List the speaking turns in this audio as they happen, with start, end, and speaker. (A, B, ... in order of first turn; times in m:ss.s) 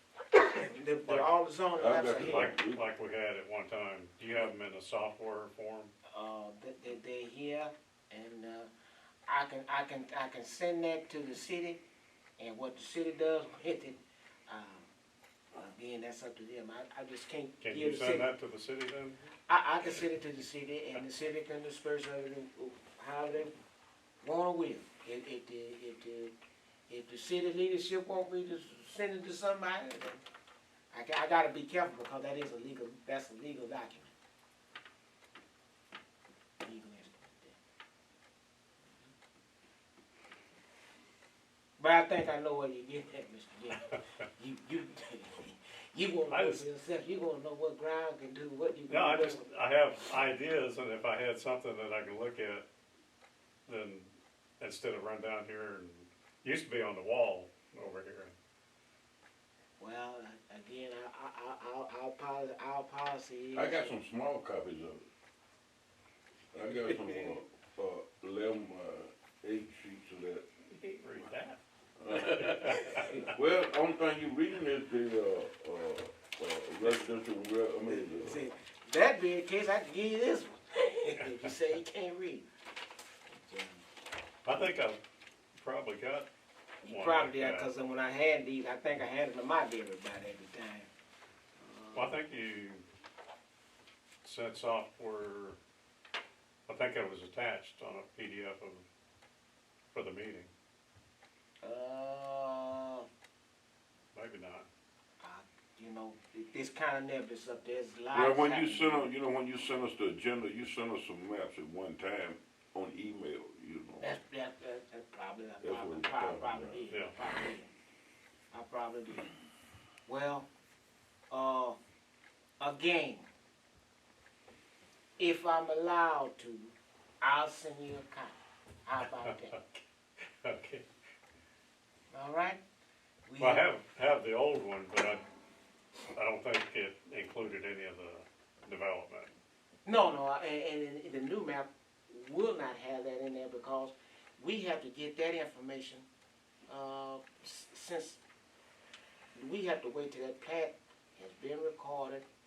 0:00.4-0:02.5 A
0:01.8-0:02.8 B
0:02.1-0:05.9 C
0:06.1-0:08.7 A
0:09.3-0:11.8 A
0:12.4-0:14.9 A
0:15.5-0:18.3 A
0:17.6-0:19.2 C
0:19.5-0:23.5 A
0:24.2-0:26.3 A
0:26.9-0:30.2 A
0:30.9-0:34.1 A
0:36.6-0:37.6 A
0:41.8-0:49.5 A
0:46.3-0:46.6 C
0:48.9-0:52.7 C
0:53.7-0:58.3 C
0:59.8-1:03.9 A
1:03.5-1:05.0 B
1:06.5-1:10.4 B
1:06.8-1:07.3 A
1:10.6-1:11.6 C
1:12.0-1:18.4 B
1:12.1-1:13.3 C
1:12.9-1:13.2 A
1:17.8-1:22.4 A
1:21.2-1:21.5 C
1:23.3-1:23.8 A
1:24.4-1:25.0 C
1:25.5-1:26.3 C
1:26.8-1:27.7 C
1:26.8-1:30.9 A
1:31.6-1:32.2 A
1:31.9-1:32.8 C
1:34.2-1:35.6 C
1:36.7-1:38.8 C
1:39.9-1:40.5 C
1:41.6-1:43.0 A
1:44.1-1:44.7 C
1:45.2-1:49.1 A
1:48.1-1:54.2 B
1:54.0-1:57.7 A
1:55.6-1:56.8 B
1:58.5-1:59.3 A
2:00.0-2:00.5 A
2:01.3-2:01.8 A
2:02.6-2:03.2 A
2:05.2-2:09.6 A
2:09.1-2:09.8 C
2:10.4-2:10.8 C
2:12.1-2:12.6 A
2:13.2-2:13.7 A
2:13.4-2:15.2 C
2:16.1-2:19.3 C
2:19.8-2:26.0 A
2:26.7-2:28.2 A
2:29.3-2:32.2 A